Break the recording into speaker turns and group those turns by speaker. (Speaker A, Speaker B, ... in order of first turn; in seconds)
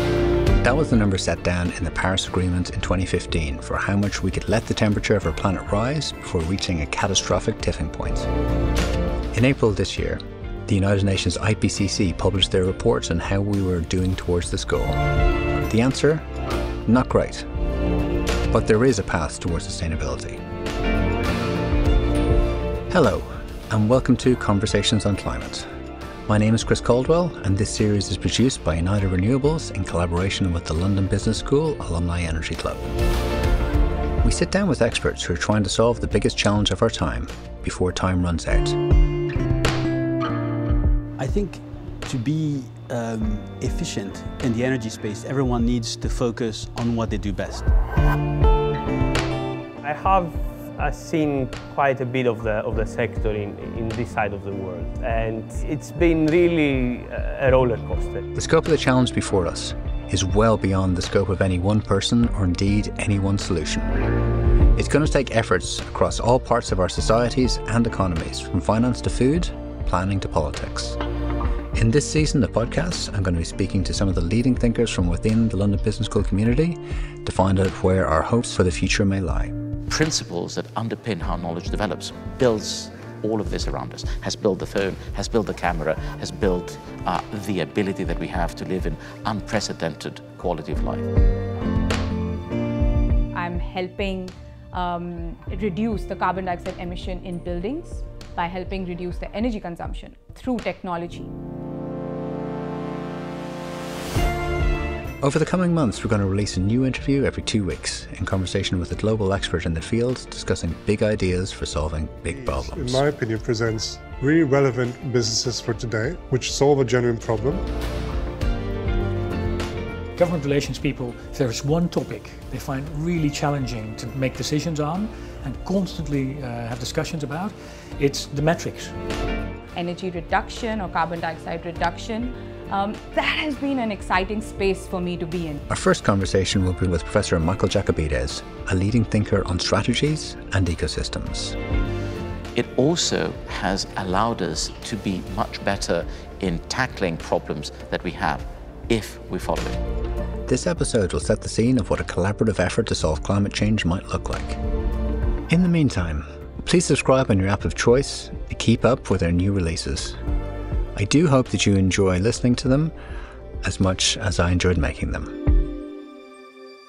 Speaker A: 0.6-8.3, 9.3-15.1, 15.6-16.2, 16.9-17.4, 18.5-20.4, 22.9-25.7, 26.3-32.9, 34.2-38.8, 58.4-63.9, 64.8-71.0, 71.8-79.5, 105.2-113.0, 135.7-141.6, 150.5-154.6, 155.5-160.2, 161.0-162.9, 163.6-165.3
Speaker B: 41.2-47.7
Speaker C: 49.8-58.3
Speaker D: 79.9-91.1, 142.6-149.8
Speaker E: 93.3-101.3, 129.7-135.6
Speaker F: 112.3-117.6
Speaker G: 120.2-129.0